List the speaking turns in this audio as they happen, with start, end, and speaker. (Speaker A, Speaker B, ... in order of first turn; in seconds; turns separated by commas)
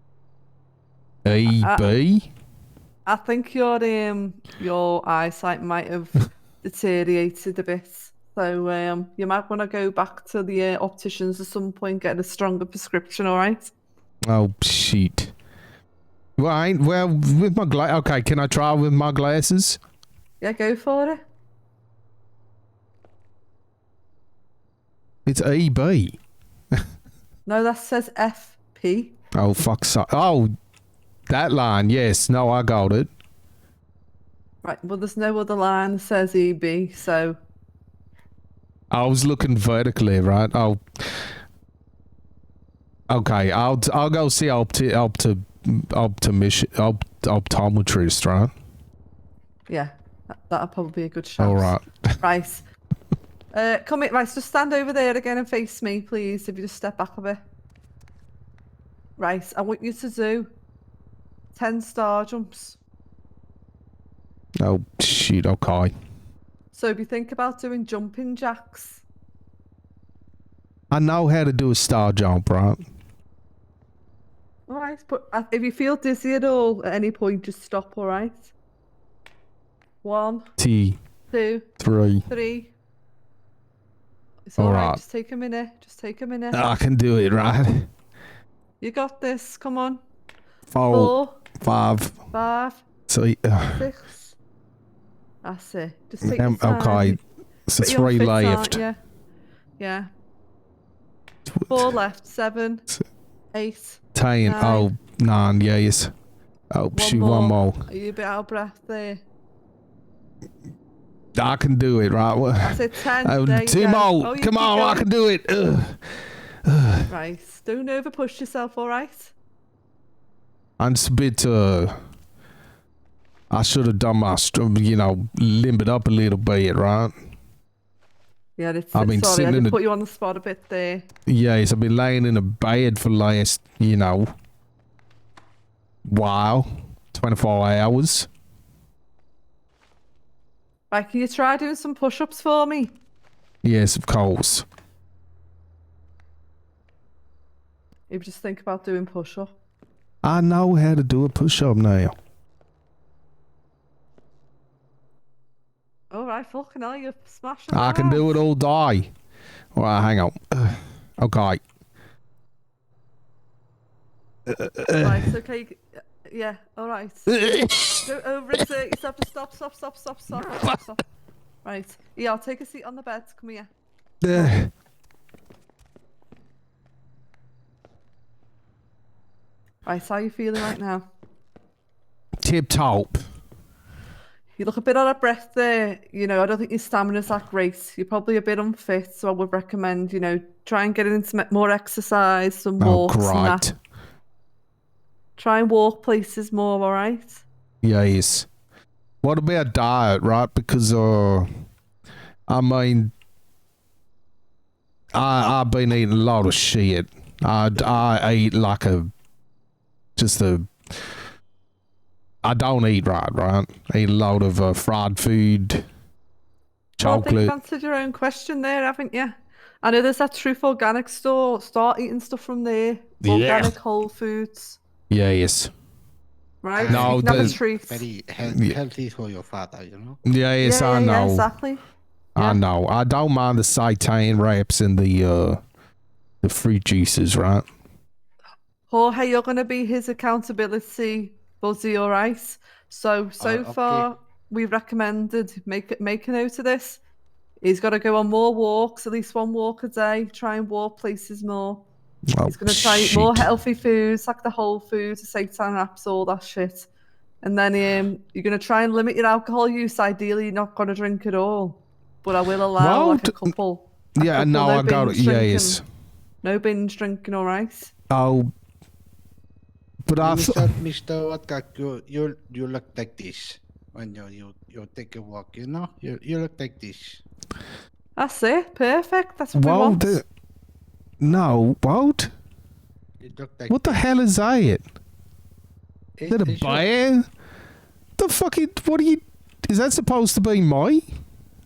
Speaker A: 1.2-2.3, Speaker B: 1.5-1.9, Speaker B: 3.0-13.7, Speaker A: 14.3-15.3, Speaker A: 16.4-19.8, Speaker B: 20.4-21.2, Speaker A: 25.2-26.2, Speaker B: 27.4-29.1, Speaker A: 29.3-30.5, Speaker A: 31.3-33.1, Speaker B: 34.6-37.4, Speaker A: 38.9-41.2, Speaker A: 43.1-48.5, Speaker B: 49.7-52.6, Speaker A: 51.4-52.2, Speaker B: 53.5-57.4, Speaker B: 59.2-60.5, Speaker B: 61.5-62.8, Speaker A: 64.6-65.9, Speaker B: 66.7-69.0, Speaker A: 70.9-72.8, Speaker B: 74.7-78.5, Speaker B: 80.0-80.5, Speaker A: 80.6-81.0, Speaker B: 81.3-81.7, Speaker A: 81.8-82.2, Speaker B: 82.3-82.7, Speaker B: 84.5-86.6, Speaker A: 84.6-85.0, Speaker A: 86.5-87.9, Speaker B: 88.8-90.0, Speaker A: 90.7-92.2, Speaker B: 90.9-91.4, Speaker B: 92.3-92.8, Speaker A: 93.1-93.8, Speaker B: 93.7-94.3, Speaker B: 95.4-97.2, Speaker A: 96.2-98.8, Speaker B: 97.8-99.0, Speaker B: 99.8-100.1, Speaker A: 101.5-101.9, Speaker B: 101.7-102.8, Speaker B: 103.5-104.9, Speaker A: 104.1-106.1, Speaker A: 106.7-107.8, Speaker B: 106.9-109.2, Speaker A: 111.3-116.0, Speaker B: 112.6-115.1, Speaker A: 116.7-117.0, Speaker B: 117.1-119.3, Speaker A: 120.8-121.9, Speaker A: 123.5-127.1, Speaker B: 128.6-131.1, Speaker A: 128.9-129.8, Speaker A: 131.3-134.3, Speaker A: 136.0-138.3, Speaker B: 140.9-142.9, Speaker A: 143.6-144.6, Speaker B: 148.1-149.5, Speaker A: 150.2-152.1, Speaker B: 156.1-158.4, Speaker A: 157.7-159.1, Speaker A: 159.7-161.6, Speaker A: 164.5-165.2, Speaker B: 164.9-167.4, Speaker A: 167.3-167.8, Speaker B: 168.0-171.0, Speaker B: 171.6-173.7, Speaker A: 174.2-174.7, Speaker B: 174.3-174.6, Speaker B: 179.8-181.1, Speaker A: 182.4-183.2, Speaker B: 184.6-193.7, Speaker A: 192.8-193.7, Speaker B: 195.4-197.4, Speaker A: 197.8-198.5, Speaker A: 199.2-201.5, Speaker A: 202.5-203.1, Speaker A: 205.1-209.1, Speaker A: 210.2-210.7, Speaker A: 212.4-215.8, Speaker A: 217.0-217.5, Speaker B: 217.0-224.8, Speaker A: 223.2-223.7, Speaker A: 225.1-225.7, Speaker B: 226.6-228.0, Speaker C: 226.8-230.2, Speaker A: 226.9-227.6, Speaker A: 228.5-228.7, Speaker A: 230.2-231.5, Speaker B: 230.6-231.8, Speaker A: 232.3-235.6, Speaker B: 232.4-232.6, Speaker A: 236.4-237.6, Speaker B: 238.9-247.0, Speaker C: 243.4-244.1, Speaker B: 247.6-251.8, Speaker A: 252.3-253.5, Speaker B: 252.4-256.9, Speaker B: 257.4-265.8, Speaker A: 262.8-263.5, Speaker A: 264.1-265.8, Speaker B: 266.4-267.9, Speaker A: 268.1-268.5, Speaker A: 270.1-270.7, Speaker C: 270.2-277.2, Speaker B: 278.2-280.2, Speaker A: 279.5-280.2, Speaker A: 281.2-282.3, Speaker C: 283.2-284.0, Speaker A: 283.7-284.8, Speaker C: 286.2-286.9, Speaker A: 286.3-287.3, Speaker A: 288.2-291.0